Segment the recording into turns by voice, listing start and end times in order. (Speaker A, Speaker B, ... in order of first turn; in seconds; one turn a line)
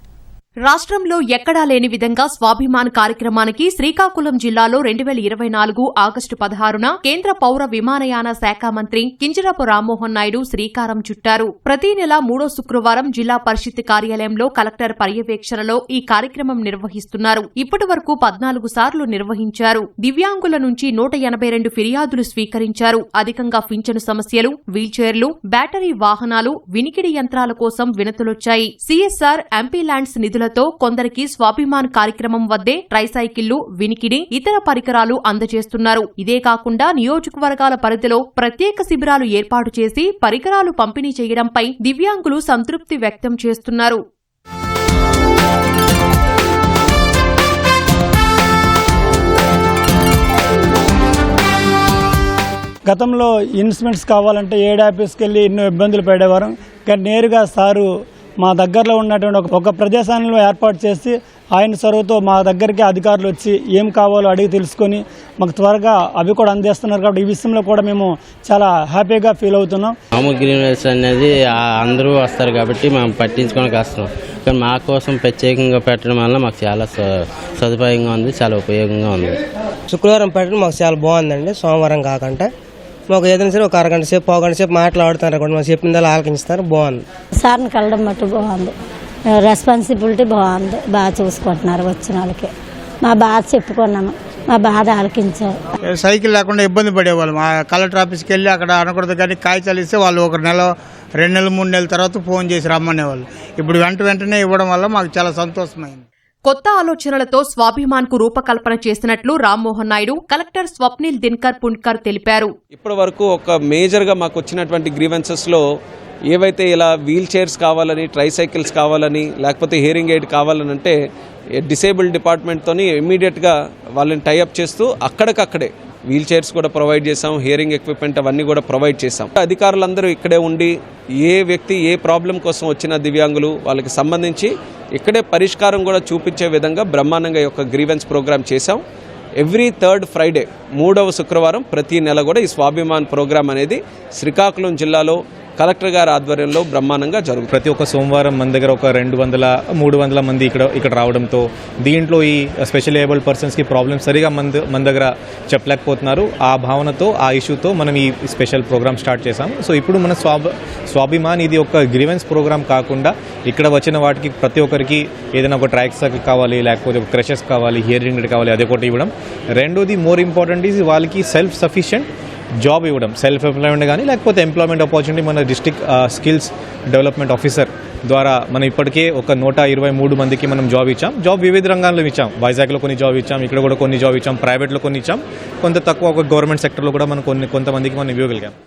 Speaker A: 0.7-44.0
Speaker B: 52.9-70.0
Speaker C: 70.1-79.4
Speaker D: 79.9-82.5
Speaker D: 83.1-87.0
Speaker E: 87.4-88.7
Speaker E: 89.4-92.5
Speaker E: 93.0-95.5
Speaker F: 95.8-106.0
Speaker A: 106.5-112.5
Speaker G: 112.7-115.6
Speaker G: 116.3-120.9
Speaker G: 121.6-138.8
Speaker G: 139.4-147.4
Speaker H: 147.5-172.1
Speaker H: 172.6-188.5